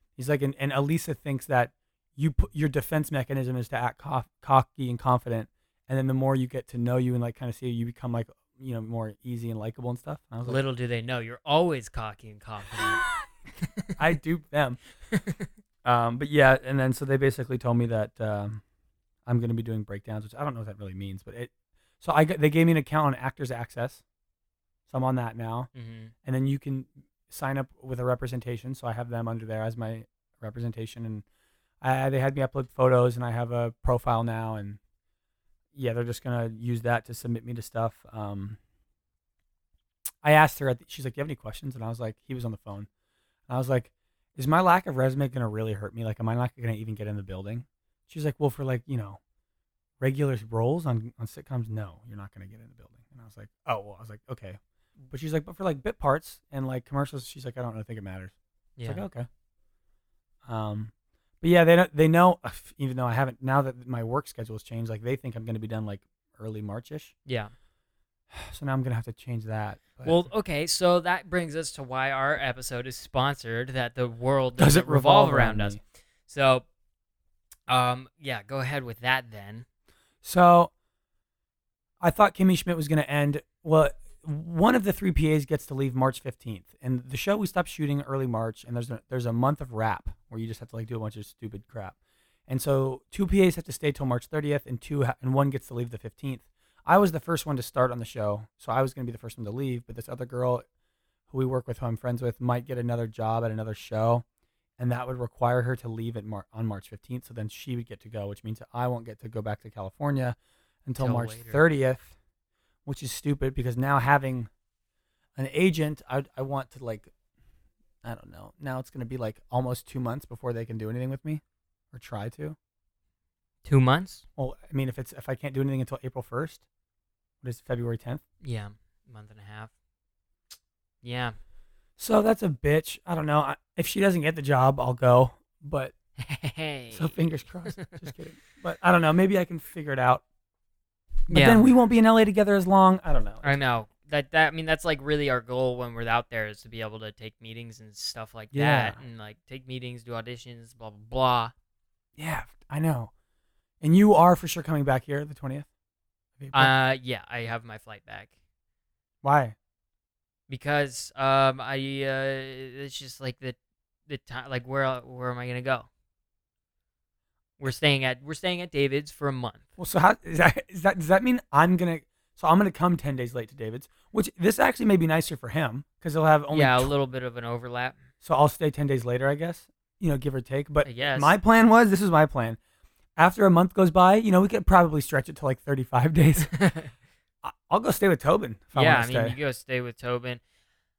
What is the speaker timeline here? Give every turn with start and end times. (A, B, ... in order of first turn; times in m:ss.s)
0:00.2-0:10.6 A
0:10.4-0:13.0 B
0:13.6-0:14.0 B
0:14.0-0:14.8 A
0:15.1-0:15.5 B
0:15.8-0:18.6 A
0:19.2-0:24.0 A
0:24.9-0:25.7 A
0:25.7-0:26.1 B
0:26.2-0:31.2 A
0:31.8-0:34.8 A
0:35.7-0:38.6 A
0:40.2-0:42.9 A
0:43.5-0:49.2 A
0:50.0-0:54.6 A
0:55.1-0:58.3 A
0:58.8-0:59.0 B
0:58.8-0:59.3 A
1:00.4-1:07.1 A
1:07.2-1:07.5 B
1:08.3-1:10.2 A
1:10.0-1:16.6 B
1:14.6-1:15.8 A
1:17.7-1:19.6 B
1:20.2-1:20.7 A
1:22.0-1:32.0 A
1:32.5-1:40.6 A
1:41.3-1:44.2 A
1:44.8-1:52.1 A
1:51.0-1:51.6 B
1:52.8-1:54.5 A
1:55.4-1:57.1 A
1:58.0-2:02.6 A
2:03.6-2:04.2 B
2:04.4-2:06.6 A
2:07.4-2:08.2 A
2:08.4-2:09.7 B
2:11.0-2:11.4 B
2:12.0-2:15.9 A
2:16.2-2:18.0 B
2:16.9-2:20.2 A
2:21.3-2:23.5 A
2:21.3-2:21.7 B
2:23.4-2:31.5 B
2:28.5-2:29.0 A
2:32.2-2:33.1 A
2:33.8-2:35.7 A
2:36.4-2:36.7 A
2:36.5-2:38.3 B
2:39.2-2:39.6 A
2:40.5-2:43.6 B
2:44.1-2:45.9 B
2:47.6-2:49.7 B
2:49.8-2:56.9 A
2:56.5-2:58.0 B
2:58.2-3:02.6 A
3:00.8-3:01.3 B
3:03.2-3:06.5 A
3:06.4-3:06.9 B
3:07.4-3:09.4 A
3:08.7-3:10.4 B